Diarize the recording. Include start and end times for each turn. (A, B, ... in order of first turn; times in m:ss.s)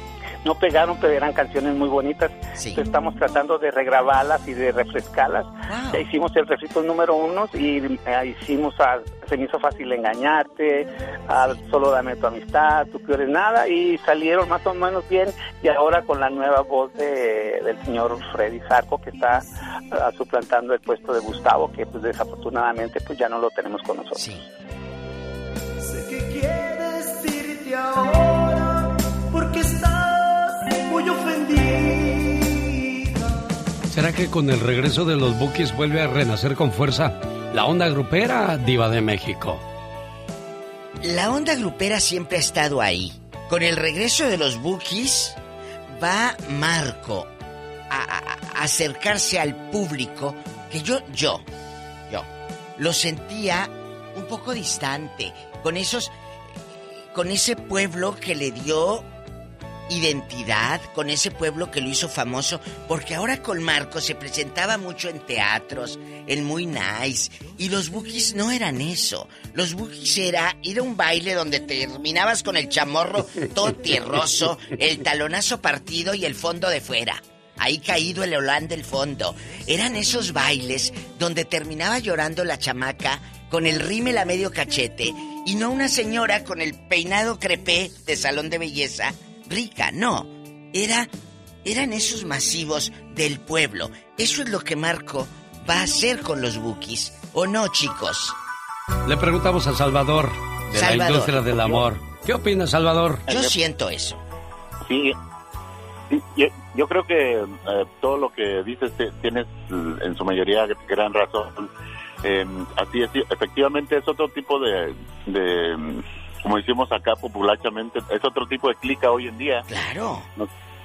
0:00.4-0:24.2 A
0:02.6-0:02.8 B
0:05.7-0:06.0 B
0:24.2-0:24.4 B
0:25.9-0:28.8 C
0:29.3-0:33.1 C
0:33.9-0:39.6 D
0:41.0-0:45.4 B
0:46.0-0:47.3 B
0:47.9-0:51.5 B
0:52.8-0:56.1 B
0:57.1-0:59.1 B
0:59.9-1:31.1 B
1:31.6-1:38.4 B
1:39.1-1:43.3 D
1:40.7-1:41.5 B
1:43.3-1:44.2 B
1:43.3-1:43.6 E
1:44.8-1:45.2 E
1:46.1-1:51.7 E
1:52.2-1:59.7 E
1:59.7-2:00.3 B